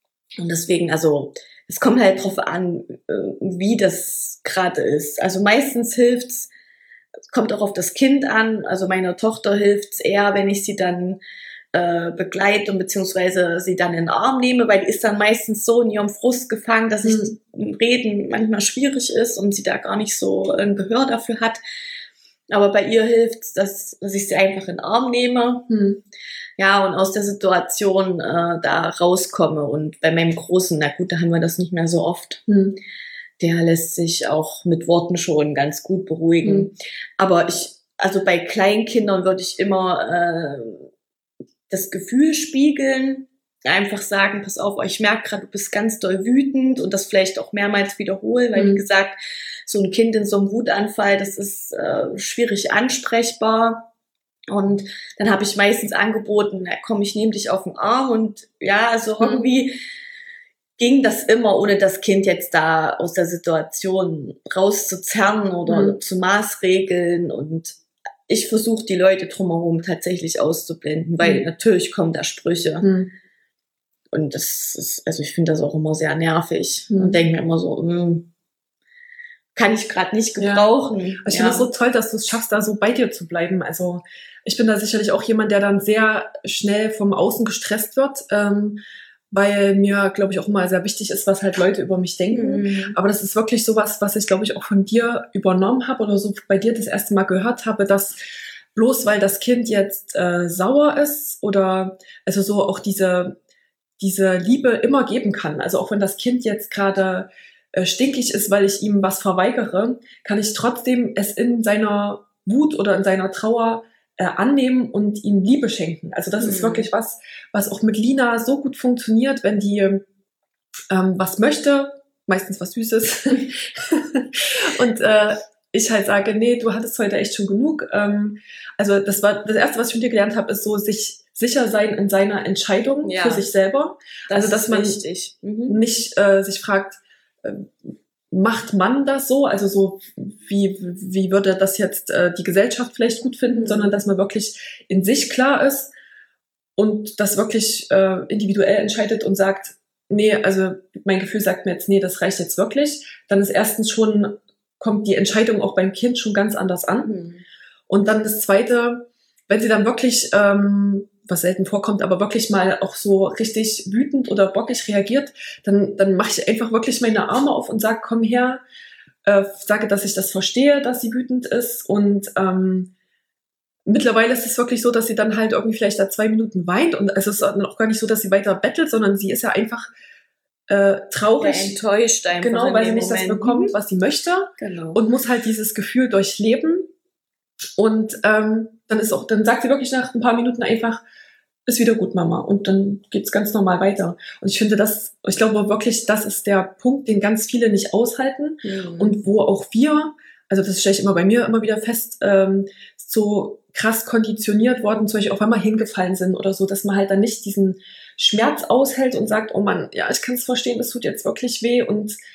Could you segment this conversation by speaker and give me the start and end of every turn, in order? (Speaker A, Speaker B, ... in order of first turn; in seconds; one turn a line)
Speaker A: 0.4-6.5
Speaker A: 7.3-11.2
Speaker A: 11.7-21.6
Speaker B: 17.0-17.3
Speaker A: 22.5-25.7
Speaker B: 25.7-26.0
Speaker A: 26.6-32.4
Speaker B: 32.5-32.8
Speaker A: 33.4-40.9
Speaker B: 36.4-36.7
Speaker A: 41.7-53.9
Speaker B: 48.5-48.8
Speaker A: 54.5-59.8
Speaker A: 60.8-72.9
Speaker B: 65.7-65.9
Speaker B: 72.8-73.1
Speaker A: 74.1-78.3
Speaker B: 76.9-77.2
Speaker A: 79.5-81.7
Speaker B: 80.4-80.7
Speaker B: 81.2-88.8
Speaker B: 89.3-98.2
Speaker A: 92.3-93.0
Speaker B: 98.7-103.4
Speaker B: 104.0-120.0
Speaker A: 116.4-116.9
Speaker B: 120.9-135.0
Speaker A: 133.0-133.5
Speaker A: 134.3-135.8
Speaker B: 135.7-145.9
Speaker A: 143.5-143.9
Speaker B: 146.8-157.1
Speaker A: 157.0-157.4
Speaker B: 157.9-168.6
Speaker B: 169.2-172.9
Speaker B: 173.9-179.9
Speaker B: 180.7-181.8
Speaker A: 181.4-183.7
Speaker B: 182.4-186.9
Speaker A: 184.6-185.0
Speaker B: 187.8-191.0
Speaker B: 191.7-212.2
Speaker A: 198.6-199.2